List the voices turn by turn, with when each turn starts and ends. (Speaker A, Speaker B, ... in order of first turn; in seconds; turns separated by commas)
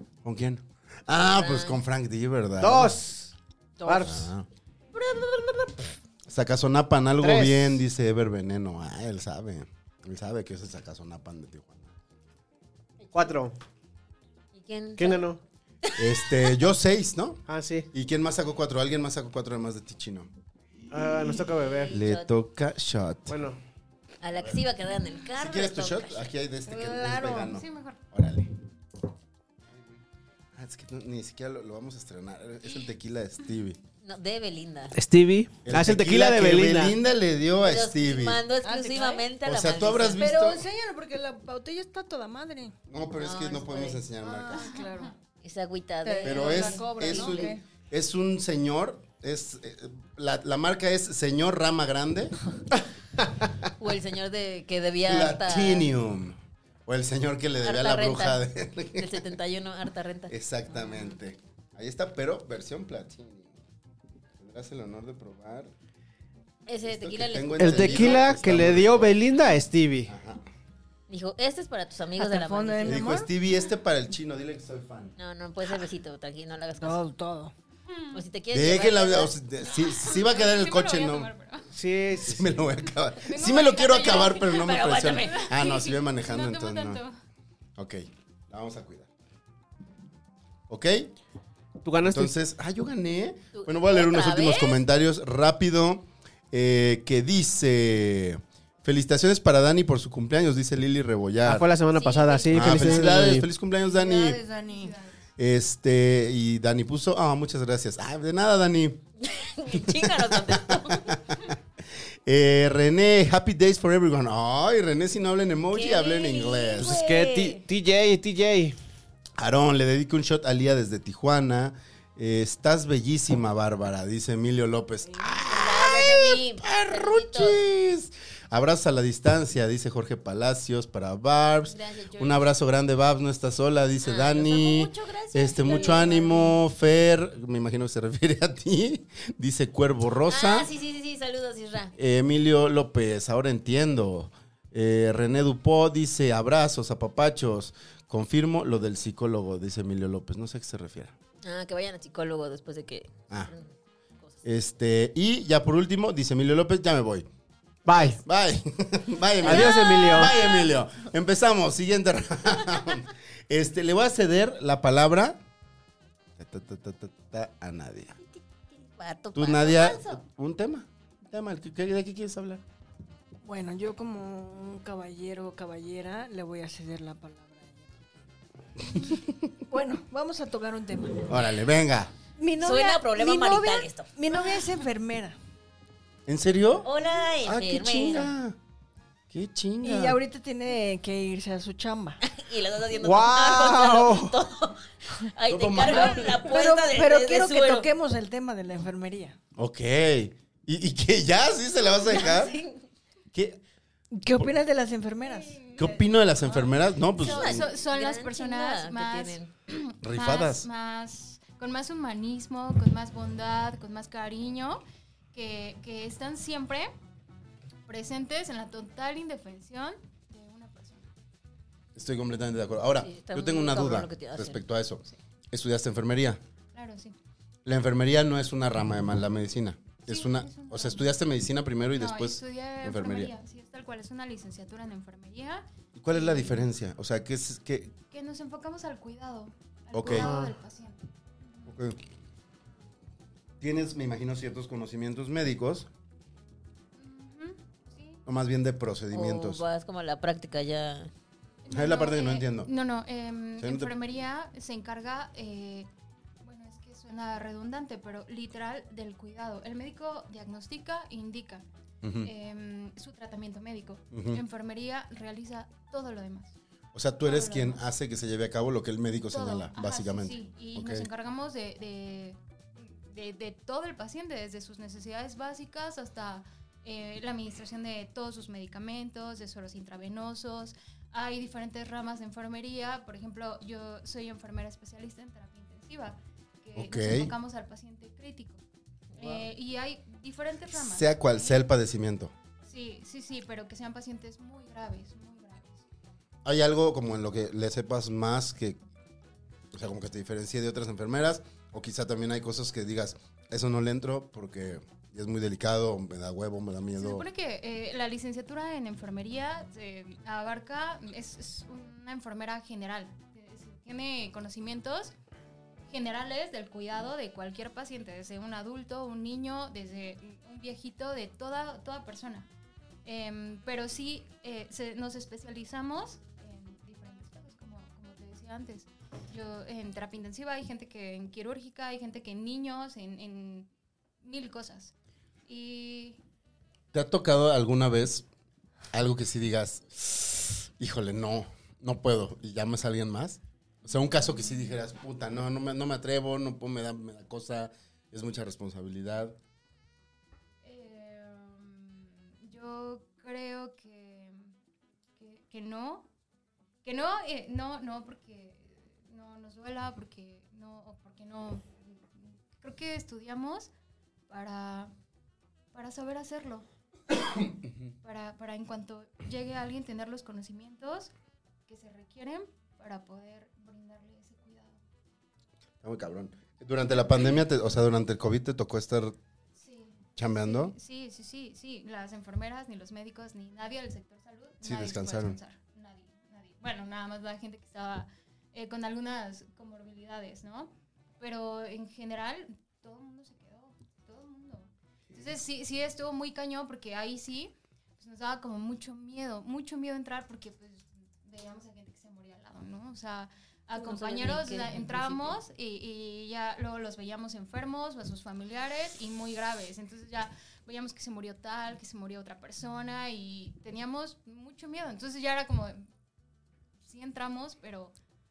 Speaker A: 0.2-3.0, Speaker B: 1.3-1.8, Speaker C: 2.6-3.3, Speaker D: 3.8-4.2, Speaker C: 3.9-4.3, Speaker A: 3.9-4.5, Speaker B: 5.0-5.6, Speaker A: 6.3-11.9, Speaker C: 7.2-7.8, Speaker B: 13.0-13.4, Speaker C: 13.1-13.5, Speaker B: 14.5-15.2, Speaker C: 15.0-15.4, Speaker A: 15.9-20.3, Speaker C: 17.5-17.9, Speaker C: 20.9-21.9, Speaker B: 21.6-22.3, Speaker A: 21.9-23.4, Speaker C: 23.3-23.6, Speaker B: 24.2-26.3, Speaker A: 25.3-28.5, Speaker D: 26.7-27.5, Speaker E: 27.5-28.0, Speaker A: 30.5-33.8, Speaker B: 34.0-34.9, Speaker C: 34.9-36.9, Speaker A: 35.6-38.4, Speaker B: 37.6-40.3, Speaker D: 38.6-39.3, Speaker A: 39.4-40.6, Speaker D: 40.2-42.8, Speaker A: 42.9-44.6, Speaker B: 43.1-44.0, Speaker D: 44.2-45.1, Speaker E: 44.5-45.1, Speaker B: 45.4-47.5, Speaker D: 46.0-47.6, Speaker A: 46.2-52.3, Speaker B: 53.8-55.9, Speaker A: 55.0-59.3, Speaker B: 57.6-58.4, Speaker B: 59.0-60.3, Speaker A: 60.3-63.6, Speaker A: 64.4-65.7, Speaker B: 66.7-68.3, Speaker A: 66.8-69.2, Speaker C: 67.6-70.1, Speaker A: 70.0-70.4, Speaker B: 71.1-73.0, Speaker D: 72.2-73.3, Speaker A: 72.8-75.2, Speaker B: 75.2-77.0, Speaker D: 76.8-77.5, Speaker E: 77.9-78.2, Speaker B: 78.1-79.3, Speaker A: 78.5-81.3, Speaker E: 79.8-81.7, Speaker C: 81.7-82.5, Speaker A: 82.2-87.0, Speaker E: 83.2-87.2, Speaker B: 84.1-85.5, Speaker A: 87.8-89.1, Speaker A: 90.7-91.1, Speaker C: 91.8-92.3, Speaker A: 92.0-101.7, Speaker B: 93.5-94.8, Speaker C: 101.4-103.5, Speaker B: 101.9-103.2, Speaker A: 102.5-104.4, Speaker D: 103.8-105.0, Speaker E: 104.7-105.2, Speaker A: 105.4-109.0, Speaker B: 109.2-111.2, Speaker A: 109.7-111.5, Speaker A: 112.2-117.0, Speaker B: 115.7-117.6, Speaker C: 116.8-118.8, Speaker A: 119.4-140.7, Speaker D: 125.0-125.5, Speaker B: 125.5-127.6, Speaker B: 131.6-132.5, Speaker B: 134.0-136.5, Speaker B: 140.3-141.9, Speaker A: 141.9-151.1, Speaker B: 151.4-154.4, Speaker A: 154.4-157.3, Speaker C: 157.8-158.2, Speaker A: 158.1-165.4, Speaker C: 159.4-160.3, Speaker B: 159.4-160.7, Speaker A: 166.4-168.2, Speaker B: 168.3-170.2, Speaker A: 169.3-172.6, Speaker D: 173.4-178.3, Speaker A: 178.9-179.3, Speaker D: 179.7-181.3, Speaker A: 181.3-182.1, Speaker D: 182.4-185.4, Speaker B: 182.6-184.1, Speaker A: 186.3-186.9, Speaker B: 186.8-188.3, Speaker A: 187.4-188.6, Speaker A: 189.3-190.2, Speaker D: 189.8-192.2, Speaker B: 192.2-197.9, Speaker C: 193.0-194.3, Speaker A: 195.5-196.5, Speaker D: 195.8-199.4, Speaker A: 199.6-202.6, Speaker B: 202.1-202.8, Speaker A: 203.3-203.6, Speaker D: 204.1-205.6, Speaker E: 205.4-205.9, Speaker A: 205.8-207.7, Speaker E: 207.2-216.9, Speaker B: 207.2-209.5, Speaker A: 210.0-210.7, Speaker E: 217.9-221.1, Speaker A: 221.9-226.4, Speaker B: 223.0-224.6, Speaker E: 226.7-227.2, Speaker A: 227.6-233.3, Speaker E: 230.1-231.1, Speaker E: 232.0-236.6, Speaker A: 235.9-238.0, Speaker E: 238.0-241.7, Speaker A: 239.9-240.3, Speaker C: 240.1-240.6, Speaker A: 241.7-242.0, Speaker A: 243.6-245.9, Speaker E: 246.9-248.2, Speaker A: 248.2-249.6, Speaker B: 249.1-251.1, Speaker E: 251.6-255.9, Speaker A: 251.7-252.7, Speaker A: 253.6-253.9, Speaker E: 256.4-261.6, Speaker A: 262.0-262.3, Speaker E: 262.2-266.5, Speaker A: 264.1-264.4, Speaker A: 266.9-271.1, Speaker E: 267.2-267.8, Speaker E: 269.3-288.6, Speaker A: 286.8-287.3, Speaker B: 289.1-289.4, Speaker E: 289.2-291.6, Speaker A: 290.7-292.3, Speaker E: 292.6-295.9, Speaker A: 296.4-298.8, Speaker A: 299.7-307.2, Speaker E: 306.9-315.1, Speaker E: 315.9-322.5, Speaker E: 323.0-333.7, Speaker E: 334.2-334.9, Speaker E: 335.5-336.2, Speaker A: 336.9-338.2, Speaker A: 338.9-349.4, Speaker E: 344.2-344.6, Speaker E: 350.6-354.5, Speaker E: 355.2-356.1, Speaker E: 356.8-363.7, Speaker E: 364.3-364.9, Speaker E: 365.7-366.6, Speaker E: 368.0-371.1, Speaker E: 371.7-374.8, Speaker A: 375.8-379.2, Speaker E: 379.6-415.9, Speaker A: 380.1-380.7, Speaker A: 384.6-385.4, Speaker B: 403.7-405.4, Speaker E: 416.8-417.9